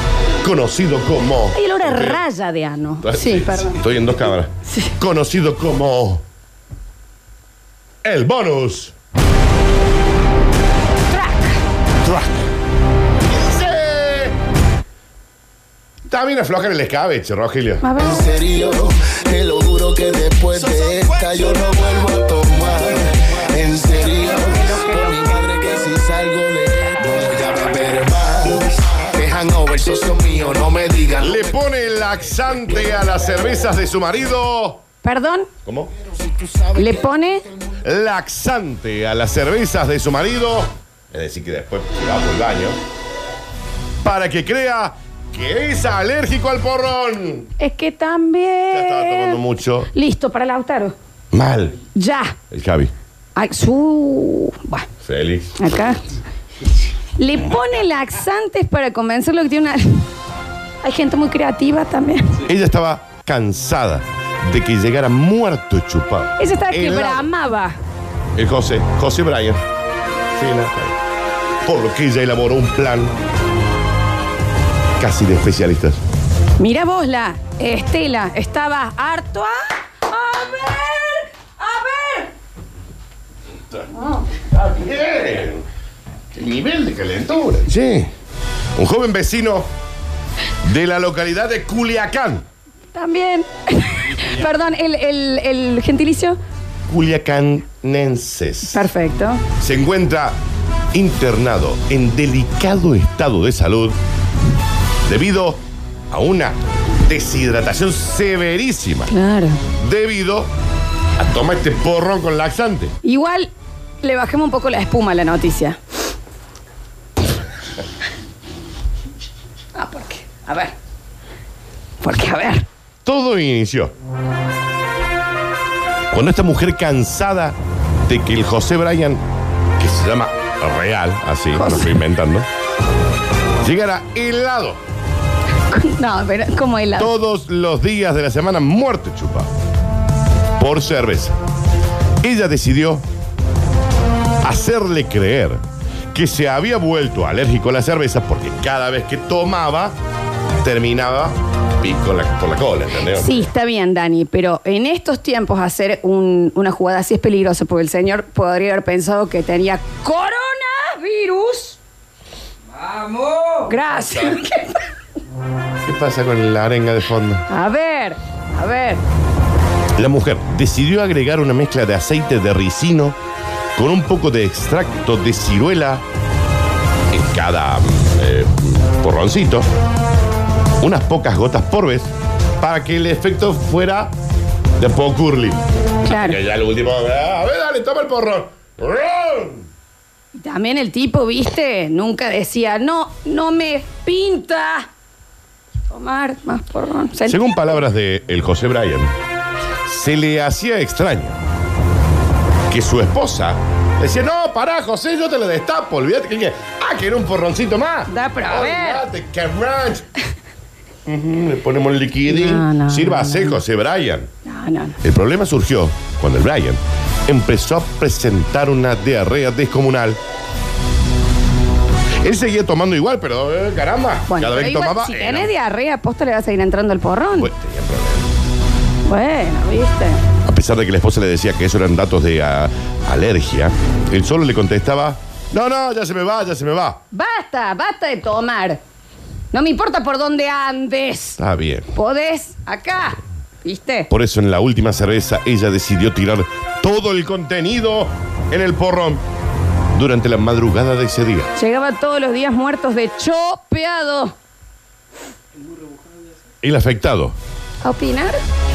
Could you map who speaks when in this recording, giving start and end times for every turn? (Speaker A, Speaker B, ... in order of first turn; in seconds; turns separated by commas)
Speaker A: 0.4-2.2, Speaker B: 1.5-3.8, Speaker A: 3.0-6.2, Speaker B: 4.7-5.0, Speaker A: 8.0-8.9, Speaker B: 11.1-11.6, Speaker A: 12.0-12.5, Speaker A: 13.2-14.3, Speaker A: 16.1-17.9, Speaker B: 17.8-18.3, Speaker C: 18.0-31.4, Speaker B: 24.1-25.3, Speaker A: 31.2-34.8, Speaker B: 35.0-35.5, Speaker A: 35.6-35.9, Speaker C: 36.1-37.1, Speaker B: 36.7-37.5, Speaker A: 37.8-42.8, Speaker A: 44.0-47.5, Speaker B: 47.6-49.4, Speaker A: 48.7-49.9, Speaker B: 49.9-51.0, Speaker A: 51.3-51.8, Speaker B: 51.9-52.4, Speaker A: 52.5-52.9, Speaker B: 53.4-54.9, Speaker A: 55.0-55.5, Speaker B: 55.6-56.0, Speaker B: 57.2-60.1, Speaker B: 60.8-62.4, Speaker A: 62.4-67.3, Speaker B: 66.4-67.8, Speaker A: 68.3-69.6, Speaker A: 70.3-71.0, Speaker A: 71.6-73.1, Speaker A: 75.0-76.0, Speaker B: 76.6-82.3, Speaker A: 84.3-85.6, Speaker A: 86.3-88.1, Speaker A: 88.8-89.7, Speaker A: 90.6-92.4, Speaker B: 92.9-96.4, Speaker A: 96.9-98.9, Speaker B: 98.7-99.4, Speaker A: 99.5-100.4, Speaker A: 100.9-104.0, Speaker A: 105.0-109.1, Speaker B: 109.1-109.6, Speaker A: 109.7-110.5, Speaker A: 111.2-112.9, Speaker B: 113.0-115.8, Speaker B: 119.7-120.7, Speaker B: 122.0-122.7, Speaker A: 123.0-123.9, Speaker A: 126.1-129.2, Speaker A: 129.8-132.5, Speaker B: 131.5-132.0, Speaker A: 133.6-134.8, Speaker B: 135.7-137.1, Speaker A: 137.0-139.5, Speaker A: 140.6-141.3, Speaker A: 142.2-143.0, Speaker A: 144.4-149.9, Speaker A: 150.6-153.5, Speaker B: 153.1-161.8, Speaker B: 162.8-164.9, Speaker A: 165.8-167.5, Speaker B: 167.5-169.0, Speaker A: 170.0-173.2, Speaker A: 173.7-176.0, Speaker A: 177.1-179.7, Speaker A: 180.8-184.1, Speaker A: 184.8-189.7, Speaker B: 186.0-186.4, Speaker B: 190.3-194.9, Speaker B: 195.9-197.8, Speaker A: 197.2-199.1, Speaker A: 199.8-201.4, Speaker A: 202.7-210.1, Speaker B: 208.1-209.0, Speaker A: 211.1-214.3, Speaker B: 212.3-213.6, Speaker B: 214.4-215.0, Speaker A: 215.0-220.2, Speaker A: 222.2-225.5, Speaker B: 224.3-227.5, Speaker A: 227.3-228.3, Speaker B: 229.0-230.2, Speaker A: 230.4-237.0, Speaker B: 237.1-238.8, Speaker B: 239.5-241.4, Speaker A: 241.4-241.9, Speaker B: 241.9-244.1, Speaker A: 244.1-249.2, Speaker A: 249.9-251.5, Speaker B: 251.6-254.3, Speaker A: 256.6-257.3, Speaker B: 257.8-258.4